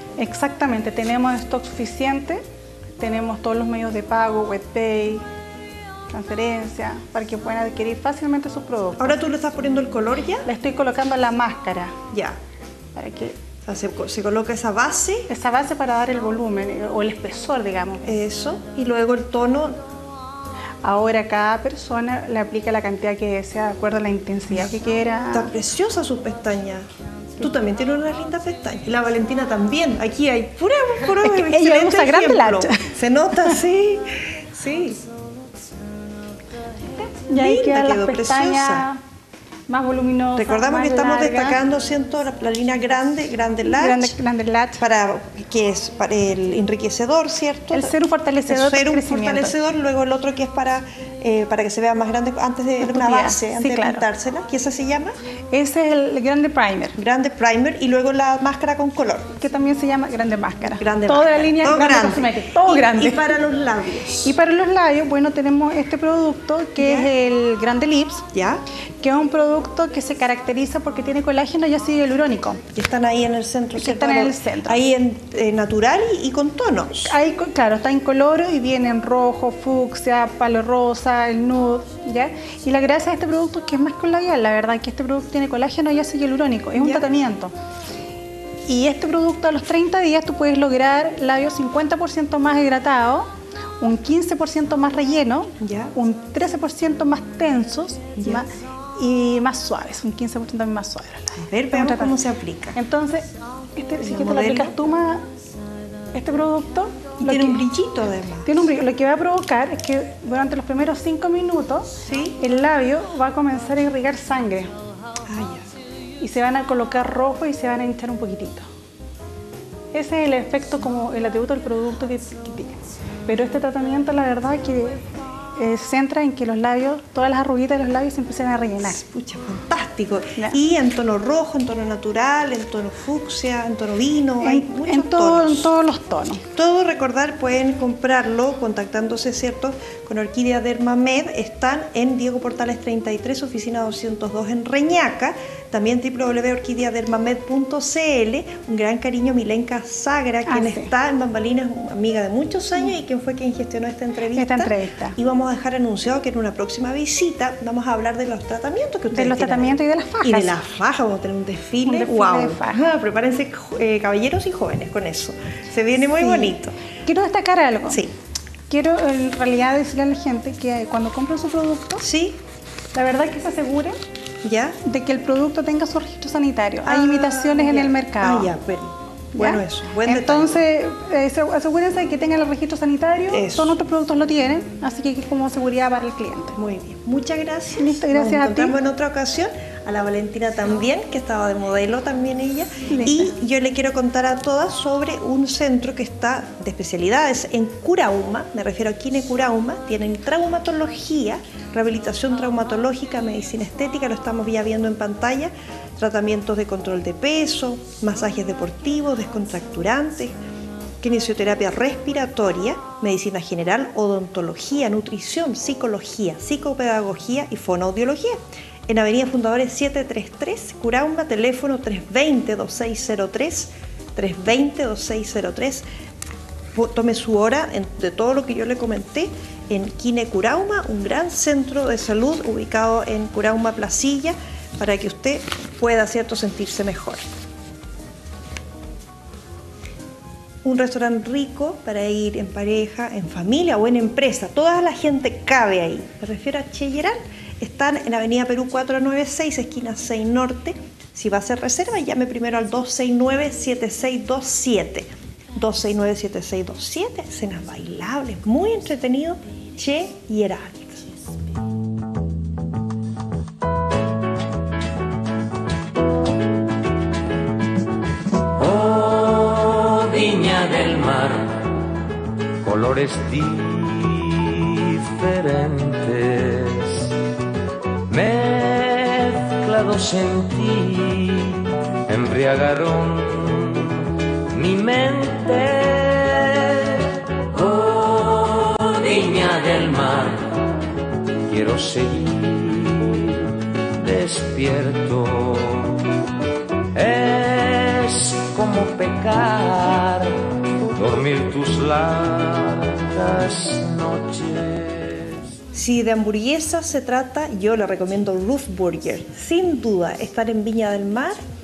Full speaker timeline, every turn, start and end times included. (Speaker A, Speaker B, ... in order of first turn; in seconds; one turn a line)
Speaker A: 0.2-2.4
Speaker A: 3.0-5.2
Speaker A: 6.1-9.2
Speaker B: 9.0-10.5
Speaker A: 10.4-12.0
Speaker B: 12.1-12.4
Speaker A: 12.9-13.4
Speaker B: 13.7-15.3
Speaker A: 15.3-18.1
Speaker B: 18.0-19.8
Speaker A: 20.8-25.5
Speaker B: 25.3-26.9
Speaker B: 27.4-35.0
Speaker A: 31.2-32.9
Speaker A: 37.3-39.0
Speaker B: 37.3-38.8
Speaker A: 39.7-41.6
Speaker B: 40.4-44.1
Speaker A: 43.6-44.8
Speaker B: 44.8-47.9
Speaker A: 47.7-49.5
Speaker B: 48.5-55.2
Speaker A: 52.8-54.0
Speaker A: 55.5-57.0
Speaker B: 57.0-59.3
Speaker A: 59.4-63.4
Speaker B: 60.8-64.3
Speaker A: 64.2-68.2
Speaker B: 66.8-67.1
Speaker B: 68.3-68.6
Speaker A: 69.0-72.6
Speaker B: 72.7-77.1
Speaker A: 73.8-74.8
Speaker A: 77.0-87.5
Speaker B: 86.8-87.0
Speaker A: 88.7-102.2
Speaker B: 95.6-95.9
Speaker B: 98.2-98.4
Speaker B: 101.4-102.8
Speaker A: 102.7-105.2
Speaker B: 104.0-104.7
Speaker A: 106.1-107.6
Speaker B: 107.2-108.5
Speaker A: 108.4-114.7
Speaker B: 112.0-112.4
Speaker B: 115.3-115.7
Speaker A: 116.2-118.7
Speaker A: 119.9-129.0
Speaker B: 128.8-135.7
Speaker A: 134.4-136.4
Speaker B: 136.5-166.7
Speaker A: 150.5-150.9
Speaker A: 154.3-155.2
Speaker A: 159.1-160.5
Speaker A: 161.8-162.8
Speaker A: 166.2-168.0
Speaker A: 168.7-172.1
Speaker B: 172.0-172.4
Speaker A: 172.9-174.0
Speaker B: 174.4-174.8
Speaker A: 174.8-178.5
Speaker B: 176.8-180.6
Speaker A: 179.3-186.6
Speaker B: 183.3-183.7
Speaker B: 186.6-210.3
Speaker A: 187.8-188.8
Speaker A: 192.9-193.3
Speaker B: 211.0-225.8
Speaker B: 226.7-237.2
Speaker B: 240.6-261.0
Speaker C: 268.6-271.7
Speaker C: 272.6-277.1
Speaker C: 278.1-290.6
Speaker C: 291.5-296.0
Speaker C: 296.9-300.4
Speaker C: 300.9-305.4
Speaker B: 305.7-311.4